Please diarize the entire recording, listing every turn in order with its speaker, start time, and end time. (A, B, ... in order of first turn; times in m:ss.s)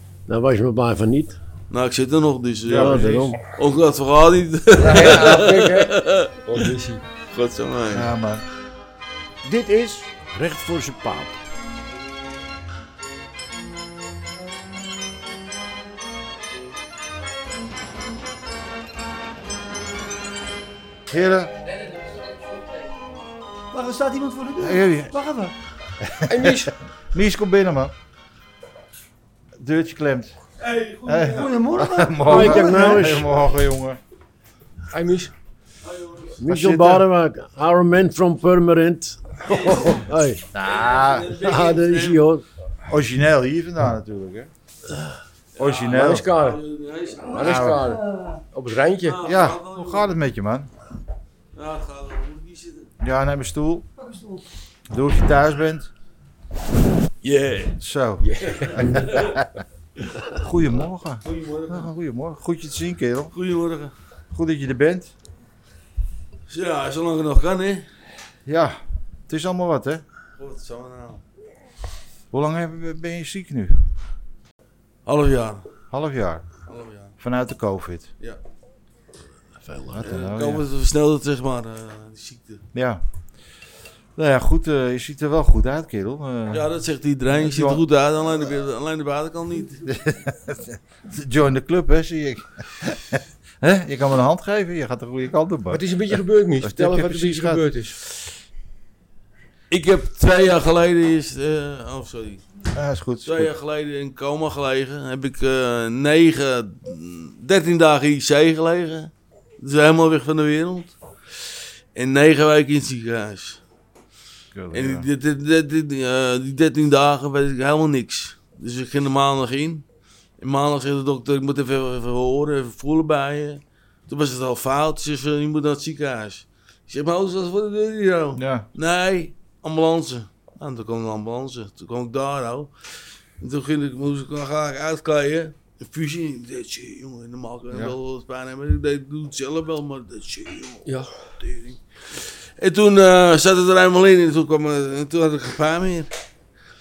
0:00.3-0:01.4 A
0:01.7-0:06.5 B
0:02.6-0:03.3 C
0:02.7-0:03.4 A
0:04.8-0:05.6 C
0:04.8-0:07.0 D
0:07.3-0:08.1 B
0:07.9-0:08.4 C
0:09.4-0:10.1 E
0:10.2-0:11.4 A
0:21.1-0:21.5 C
0:23.7-0:25.5 E
0:24.6-0:25.1 C
0:26.0-0:27.9 C
0:26.2-0:26.7 D
0:29.6-0:30.3 C
0:30.6-0:31.5 B
0:31.0-0:34.0 C
0:31.2-0:33.2 E
0:32.2-0:33.3 A
0:34.9-0:35.3 D
0:35.9-0:36.6 B
0:36.4-0:40.5 A
0:36.6-0:37.0 D
0:39.5-0:39.9 B
0:40.5-0:41.3 C
0:40.6-0:42.2 B
0:41.3-0:42.4 A
0:42.9-0:44.5 C
0:45.6-0:47.6 B
0:45.6-0:46.2 C
0:45.9-0:46.6 D
0:47.3-0:49.2 D
0:47.4-0:47.8 C
0:47.4-0:48.4 E
0:49.1-0:50.1 B
0:49.2-0:50.7 C
0:51.6-0:52.9 B
0:53.0-0:53.8 C
0:54.0-0:54.4 E
0:54.9-0:55.9 C
0:57.2-0:57.7 B
0:57.8-0:59.5 C
0:58.2-0:58.8 D
0:58.6-0:59.3 B
1:00.4-1:03.3 C
1:01.2-1:01.9 B
1:03.3-1:03.9 B
1:04.3-1:05.1 C
1:06.5-1:07.8 B
1:08.4-1:08.8 C
1:09.3-1:10.0 C
1:10.4-1:11.2 B
1:12.3-1:13.8 C
1:15.0-1:15.6 B
1:15.9-1:16.4 C
1:16.7-1:17.1 B
1:17.2-1:18.1 C
1:19.6-1:20.0 A
1:19.9-1:20.6 C
1:20.0-1:22.6 B
1:22.7-1:23.0 C
1:24.2-1:26.7 C
1:26.5-1:29.8 B
1:27.3-1:27.8 C
1:29.8-1:37.7 C
1:35.7-1:38.0 D
1:39.7-1:42.4 B
1:42.7-1:43.5 C
1:43.2-1:50.9 B
1:51.9-1:53.6 B
1:54.6-1:55.1 C
1:54.7-1:59.8 B
2:00.4-2:12.7 B
2:08.4-2:08.7 C
2:13.4-2:20.9 B
2:17.7-2:18.0 C
2:20.8-2:21.1 D
2:21.4-2:26.1 B